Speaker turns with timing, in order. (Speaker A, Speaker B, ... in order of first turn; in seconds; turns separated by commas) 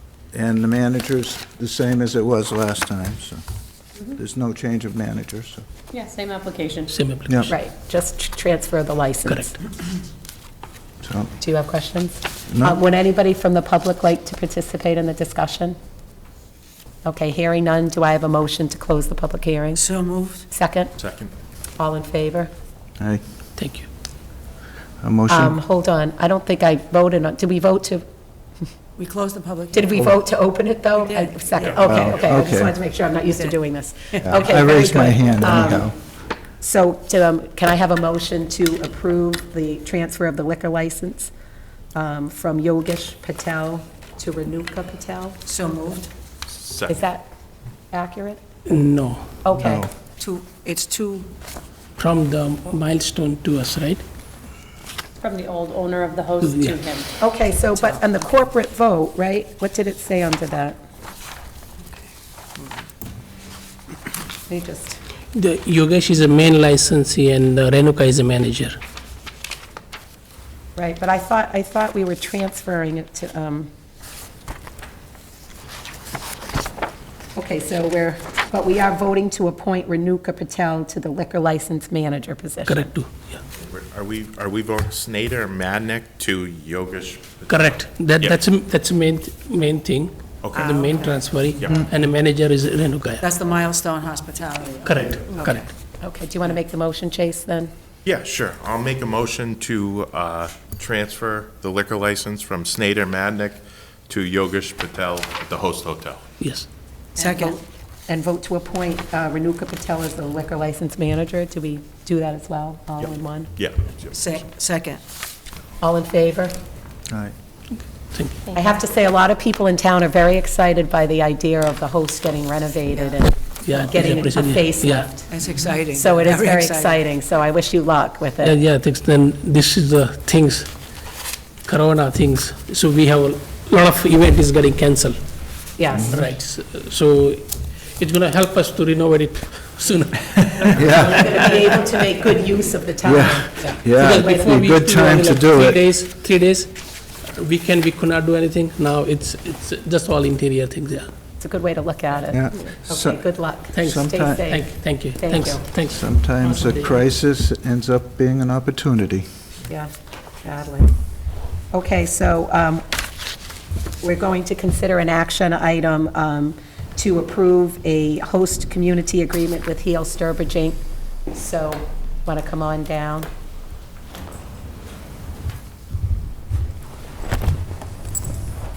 Speaker A: 0.3-3.4, Speaker A: 4.1-5.6, Speaker B: 6.0-6.9, Speaker C: 6.9-7.5, Speaker D: 7.5-9.6, Speaker C: 9.3-9.5, Speaker A: 11.0-11.3, Speaker D: 11.4-15.8, Speaker A: 12.5-12.8, Speaker D: 17.1-19.8, Speaker E: 19.8-20.5, Speaker D: 20.5-20.9, Speaker F: 21.0-21.3, Speaker D: 21.8-22.5, Speaker C: 23.6-23.9, Speaker A: 25.0-25.6, Speaker D: 25.3-28.0, Speaker E: 29.0-30.1, Speaker D: 29.7-36.0, Speaker E: 31.1-31.4, Speaker F: 31.6-32.0, Speaker A: 31.8-32.8, Speaker E: 31.9-32.1, Speaker A: 34.2-36.0, Speaker D: 36.6-41.3, Speaker D: 42.0-45.4, Speaker E: 45.5-46.1, Speaker F: 46.5-47.1, Speaker D: 46.9-47.2, Speaker D: 47.9-48.4, Speaker C: 48.7-49.2, Speaker D: 49.5-49.9, Speaker A: 49.6-49.9, Speaker E: 50.0-51.3, Speaker C: 52.0-54.0, Speaker B: 55.2-57.0, Speaker C: 56.4-56.8, Speaker D: 57.1-60.8, Speaker D: 64.5-65.0, Speaker C: 65.3-68.8, Speaker D: 70.8-73.7, Speaker D: 77.4-82.9, Speaker C: 82.7-83.4, Speaker F: 83.6-88.4, Speaker C: 87.5-93.3, Speaker F: 90.4-90.8, Speaker E: 90.6-91.2, Speaker F: 91.5-91.9, Speaker E: 93.2-95.6, Speaker C: 94.8-95.7, Speaker D: 96.0-97.7, Speaker F: 98.0-106.2, Speaker C: 106.4-106.7, Speaker D: 107.2-113.5, Speaker E: 107.2-107.6, Speaker F: 113.0-114.4, Speaker E: 114.1-115.0, Speaker D: 115.8-116.5, Speaker C: 118.1-118.4, Speaker D: 118.5-125.3, Speaker C: 123.6-125.1, Speaker E: 125.3-127.0, Speaker D: 125.9-128.6, Speaker C: 128.4-130.7, Speaker C: 131.7-135.2, Speaker D: 135.8-136.2, Speaker C: 136.1-141.5, Speaker A: 140.7-141.3, Speaker D: 140.9-144.6, Speaker A: 143.0-145.8, Speaker C: 143.6-146.7, Speaker C: 147.3-151.1, Speaker D: 151.4-155.6, Speaker A: 152.3-154.5, Speaker C: 153.7-156.9, Speaker A: 155.9-159.3, Speaker D: 160.4-160.9, Speaker D: 161.7-162.8, Speaker D: 164.0-170.8, Speaker D: 171.3-173.3